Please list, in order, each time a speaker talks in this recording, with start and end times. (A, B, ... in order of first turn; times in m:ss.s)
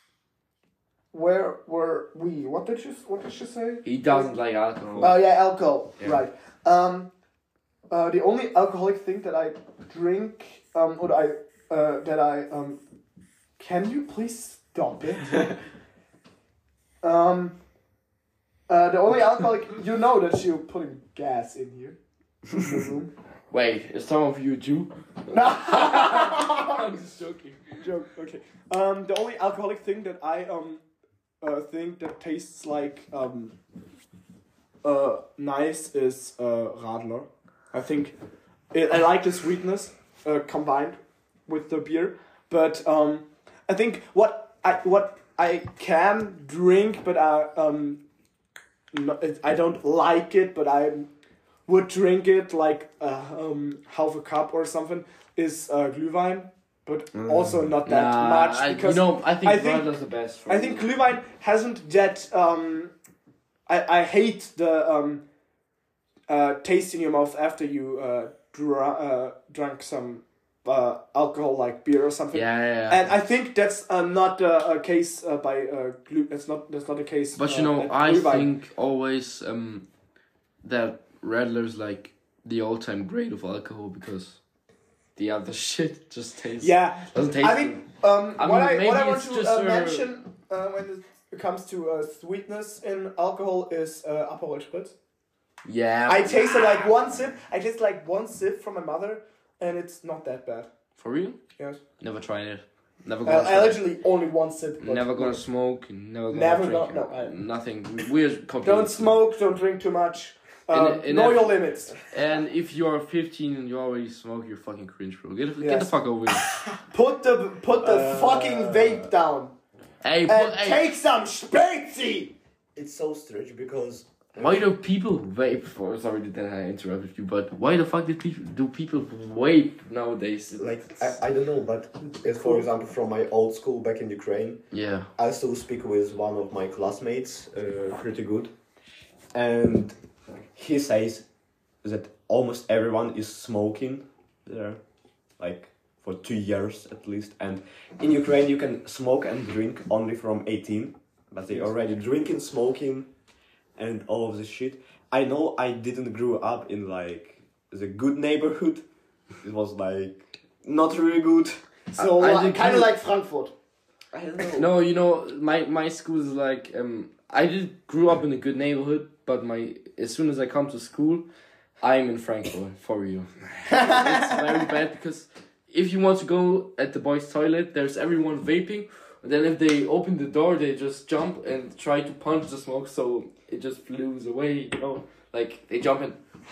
0:01.1-0:04.3 A
0:03.8-0:05.2 B
0:05.0-0:07.1 A
0:07.9-0:12.8 A
0:13.6-0:15.6 A
0:17.0-0:17.6 A
0:18.7-0:22.0 A
0:22.5-0:23.1 A
0:23.5-0:27.8 B
0:25.3-0:26.9 A
0:27.8-0:30.8 A
0:31.4-0:33.6 A
0:34.8-0:38.2 A
0:38.7-0:48.0 A
0:48.9-0:51.1 A
0:51.7-0:59.9 A
0:57.2-0:57.8 C
0:57.8-1:00.9 B
1:00.5-1:02.9 A
1:03.7-1:05.2 A
1:06.3-1:18.5 A
1:12.3-1:13.2 B
1:17.4-1:19.9 B
1:20.6-1:24.4 B
1:25.2-1:30.1 B
1:26.6-1:35.0 A
1:35.6-1:36.6 B
1:36.1-1:40.7 A
1:41.0-1:41.4 B
1:42.0-1:43.8 B
1:43.2-1:45.4 A
1:44.8-1:49.2 B
1:46.3-1:47.4 A
1:48.6-1:52.0 A
1:50.7-1:56.5 B
1:55.6-1:55.9 A
1:56.4-1:59.5 A
1:57.8-1:59.1 C
2:00.0-2:00.9 B
2:00.3-2:02.3 A
2:02.8-2:04.6 C
2:04.4-2:11.2 B
2:10.6-2:14.6 C
2:14.7-2:15.1 B
2:15.2-2:18.5 C
2:19.3-2:20.0 C
2:20.5-2:21.3 C
2:21.8-2:24.8 C
2:25.4-2:33.1 C
2:33.8-2:38.8 C
2:39.4-2:41.6 C
2:41.9-2:42.9 B
2:41.9-2:43.5 A
2:44.1-2:44.7 C
2:44.6-2:51.3 B
2:51.8-3:06.2 B
2:53.7-2:54.6 A